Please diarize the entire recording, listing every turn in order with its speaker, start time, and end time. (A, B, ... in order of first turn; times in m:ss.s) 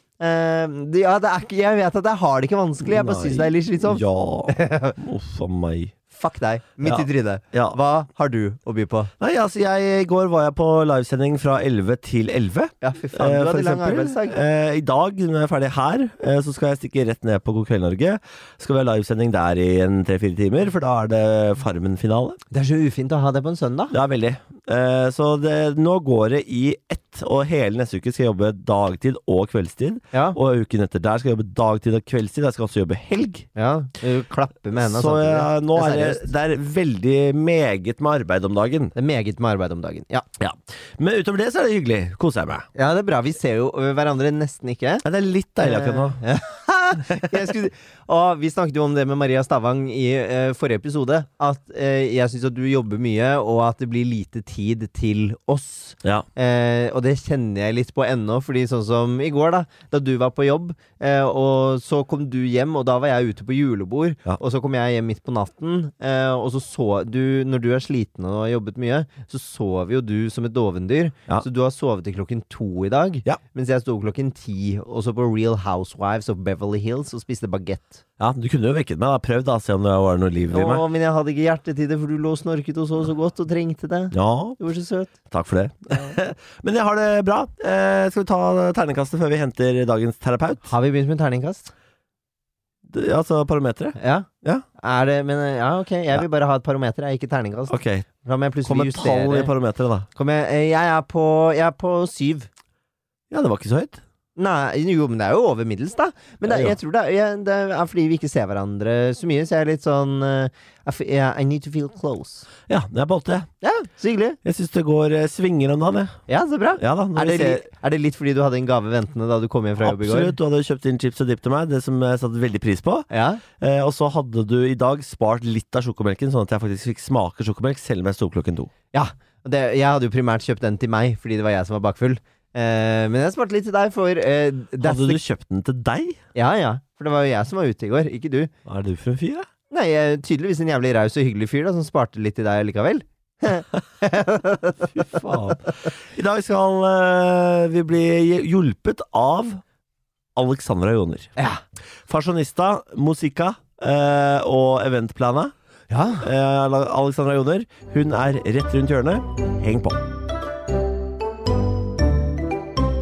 0:00.2-0:05.0 A
0:02.8-0:05.9 B
0:06.1-0:09.1 A
0:06.8-0:07.8 B
0:09.2-0:22.4 B
0:12.8-0:14.4 A
0:22.5-0:23.9 A
0:23.9-0:33.5 B
0:33.5-0:36.3 A
0:34.8-0:38.9 B
0:38.9-0:40.2 A
0:40.4-0:42.6 B
0:42.7-0:45.0 A
0:45.0-0:46.2 B
0:45.6-1:18.0 A
1:18.2-1:20.8 B
1:20.5-1:25.1 A
1:24.1-1:24.6 B
1:25.3-1:30.7 B
1:30.6-1:31.7 A
1:32.9-1:34.6 B
1:34.0-1:39.5 A
1:37.7-1:38.0 B
1:38.6-1:40.1 B
1:40.1-1:42.5 A
1:43.3-1:44.0 B
1:44.4-1:52.5 A
1:46.4-1:46.8 B
1:52.7-1:53.5 B
1:53.6-1:54.4 A
1:54.4-1:56.2 B
1:56.3-2:00.3 A
1:56.8-1:57.6 B
1:59.8-2:03.1 B
2:03.1-2:03.4 A
2:03.6-2:08.7 B
2:08.9-2:15.2 A
2:14.8-2:16.2 B
2:16.3-2:18.5 A
2:18.6-2:19.4 B
2:19.7-2:25.2 A
2:24.9-2:29.6 B
2:30.3-2:31.3 B
2:32.1-2:35.5 B
2:35.9-2:36.2 A
2:36.2-2:40.0 B